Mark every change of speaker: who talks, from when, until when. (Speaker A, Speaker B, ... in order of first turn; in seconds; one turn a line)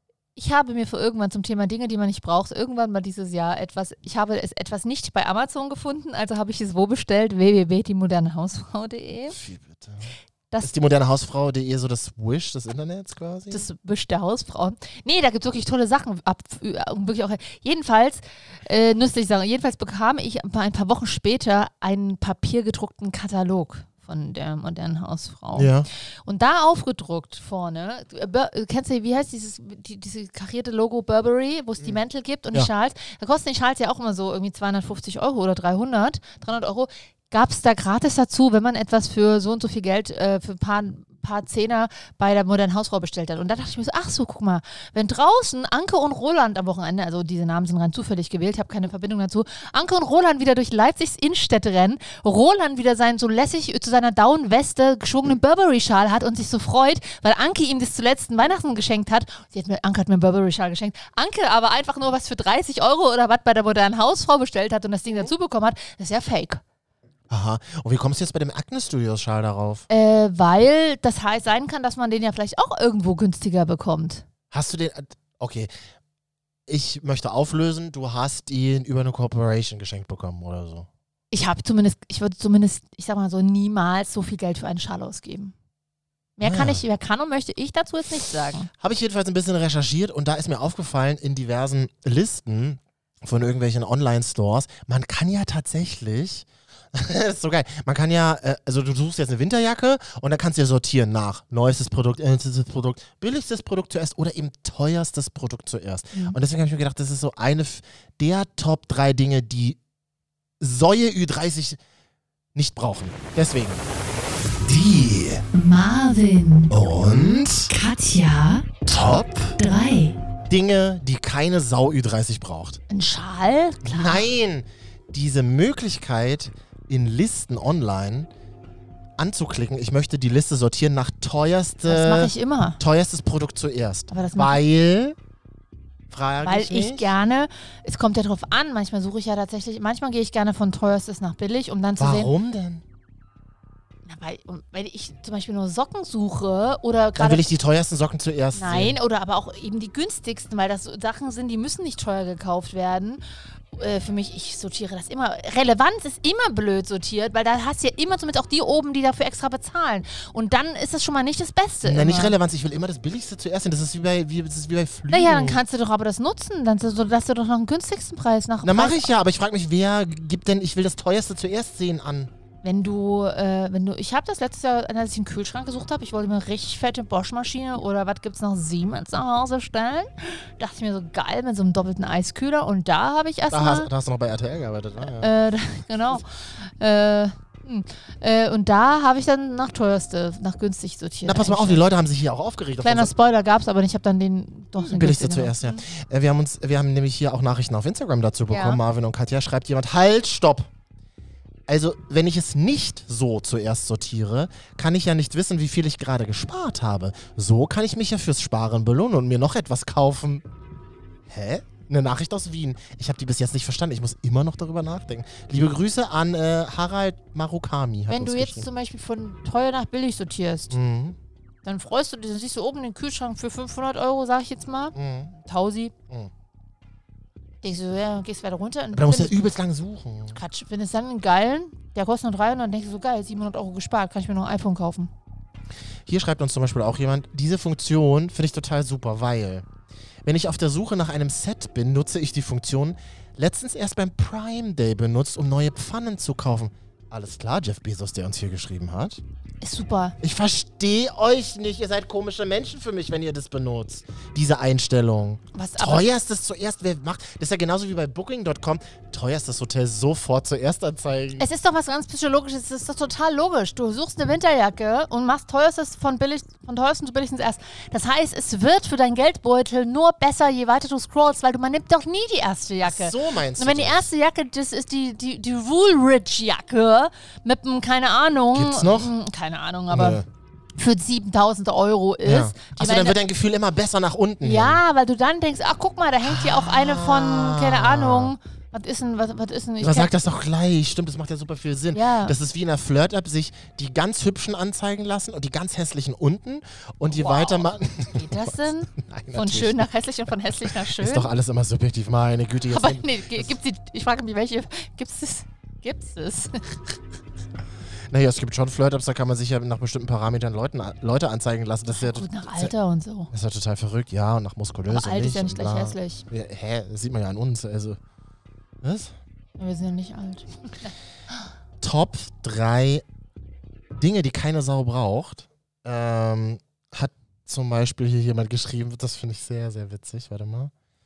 Speaker A: 0.4-9.4
Speaker B: 9.3-13.7
Speaker A: 13.5-66.6
Speaker B: 25.6-25.9
Speaker B: 67.3-69.9
Speaker A: 69.9-74.2
Speaker B: 74.5-75.7
Speaker B: 76.7-80.9
Speaker A: 81.3-85.5
Speaker A: 86.4-88.7
Speaker B: 86.4-86.8
Speaker B: 88.8-109.8
Speaker B: 110.6-111.8
Speaker B: 112.5-113.8
Speaker B: 114.6-115.4
Speaker A: 115.5-116.7
Speaker B: 116.7-117.7
Speaker A: 117.7-118.7
Speaker B: 118.9-119.5
Speaker A: 119.6-120.2
Speaker B: 120.5-122.8
Speaker A: 122.9-124.3
Speaker B: 123.8-128.3
Speaker B: 129.2-135.2
Speaker A: 131.9-132.8
Speaker A: 134.1-134.6
Speaker B: 136.1-137.1
Speaker A: 136.4-142.3
Speaker B: 142.0-142.8
Speaker A: 144.1-147.5
Speaker B: 147.2-149.0
Speaker A: 148.5-153.2
Speaker A: 153.7-162.3
Speaker B: 161.8-165.6
Speaker A: 165.1-169.1
Speaker B: 168.6-172.3
Speaker A: 172.6-183.9
Speaker B: 183.5-185.3
Speaker A: 185.0-191.8
Speaker B: 191.2-193.1
Speaker A: 192.8-195.9
Speaker B: 194.8-200.7
Speaker A: 198.5-198.8
Speaker B: 201.7-210.4
Speaker B: 211.3-218.7
Speaker A: 218.1-220.8
Speaker B: 220.7-221.2
Speaker A: 221.6-225.9
Speaker B: 224.9-225.3
Speaker A: 227.6-229.5
Speaker B: 228.9-230.4
Speaker A: 230.3-235.1
Speaker B: 236.1-239.7
Speaker B: 240.2-249.2
Speaker A: 249.6-250.2
Speaker B: 250.2-261.4
Speaker A: 255.5-256.1
Speaker A: 261.4-280.2
Speaker B: 272.9-274.1
Speaker B: 278.5-279.1
Speaker B: 279.9-280.2
Speaker A: 280.8-283.2
Speaker B: 282.2-284.8
Speaker A: 284.4-290.1
Speaker B: 286.2-288.3
Speaker B: 289.8-299.9
Speaker A: 291.9-292.4
Speaker A: 297.1-301.3
Speaker B: 300.7-303.5
Speaker A: 302.7-306.8
Speaker B: 308.1-312.7
Speaker A: 311.9-313.3
Speaker B: 313.3-318.0
Speaker A: 314.9-316.2
Speaker B: 318.8-319.1
Speaker A: 319.6-320.9
Speaker B: 321.8-323.0
Speaker B: 324.0-330.7